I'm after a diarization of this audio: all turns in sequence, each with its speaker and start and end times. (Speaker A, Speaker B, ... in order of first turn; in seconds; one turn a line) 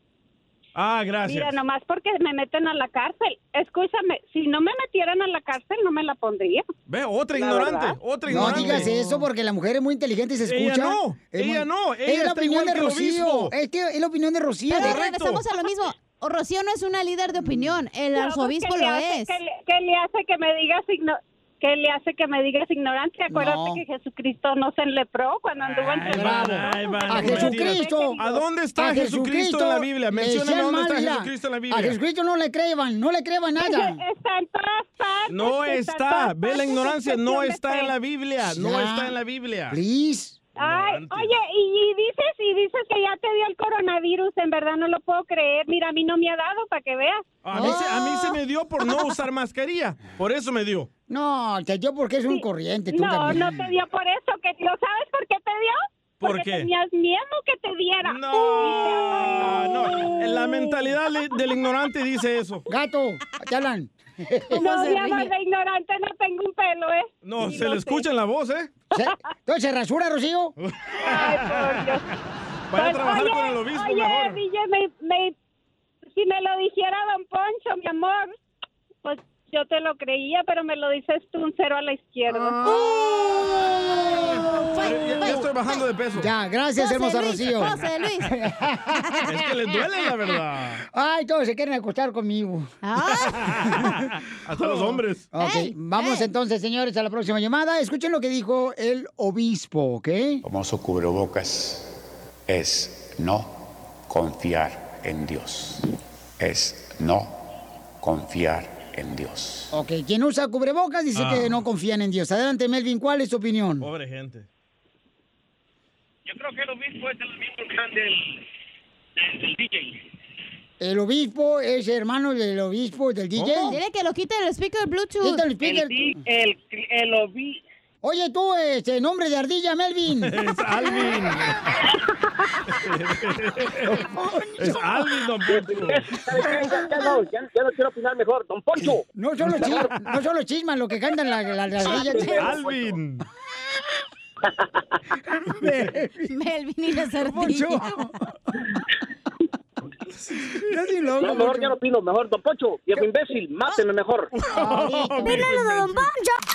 Speaker A: 0.8-1.6
Speaker B: 1.2-6.7
Speaker A: 6.9-8.9
Speaker B: 7.3-8.0
Speaker C: 8.3-15.0
Speaker D: 8.8-9.2
Speaker A: 10.4-13.5
Speaker D: 14.7-19.3
Speaker A: 14.8-15.4
Speaker B: 18.1-28.4
Speaker C: 23.3-23.8
Speaker A: 25.6-32.0
Speaker C: 26.1-28.2
Speaker C: 28.8-34.0
Speaker B: 33.6-37.9
Speaker A: 35.3-39.8
Speaker C: 38.4-39.2
Speaker C: 39.7-40.4
Speaker B: 40.6-47.8
Speaker A: 40.6-41.4
Speaker A: 47.4-50.9
Speaker C: 47.5-47.9
Speaker C: 51.1-53.6
Speaker B: 52.3-60.2
Speaker A: 56.2-56.7
Speaker A: 58.0-62.7
Speaker C: 62.7-64.5
Speaker D: 64.5-65.3
Speaker B: 64.5-68.1
Speaker A: 67.2-68.7
Speaker C: 68.9-70.5
Speaker A: 70.6-72.0
Speaker B: 71.0-72.0
Speaker A: 72.7-74.4
Speaker B: 72.7-75.3
Speaker B: 76.1-78.3
Speaker B: 79.0-82.6
Speaker A: 82.3-86.3
Speaker D: 82.6-83.5
Speaker D: 84.0-85.8
Speaker C: 86.2-90.0
Speaker D: 86.8-88.3
Speaker A: 89.3-90.8
Speaker C: 90.9-92.7
Speaker D: 92.8-93.5
Speaker A: 93.2-95.3
Speaker C: 94.6-100.4
Speaker D: 95.4-96.3
Speaker E: 100.4-101.9
Speaker E: 102.5-105.9
Speaker E: 106.4-107.4
Speaker E: 108.0-109.7
Speaker C: 109.7-113.9
Speaker A: 111.2-111.6
Speaker A: 113.8-114.5
Speaker C: 120.8-123.8
Speaker A: 123.4-123.8
Speaker D: 123.7-125.5
Speaker C: 125.2-126.2
Speaker C: 128.0-130.3
Speaker A: 130.2-131.7
Speaker A: 132.7-134.0
Speaker C: 133.9-134.8
Speaker A: 134.6-136.1
Speaker F: 135.6-139.0
Speaker C: 139.2-142.5
Speaker D: 141.8-142.4
Speaker A: 142.4-143.2
Speaker C: 145.5-146.3
Speaker D: 146.3-147.9
Speaker C: 147.2-148.3
Speaker C: 150.5-151.8
Speaker F: 151.2-154.3
Speaker A: 154.4-156.1
Speaker C: 154.5-155.6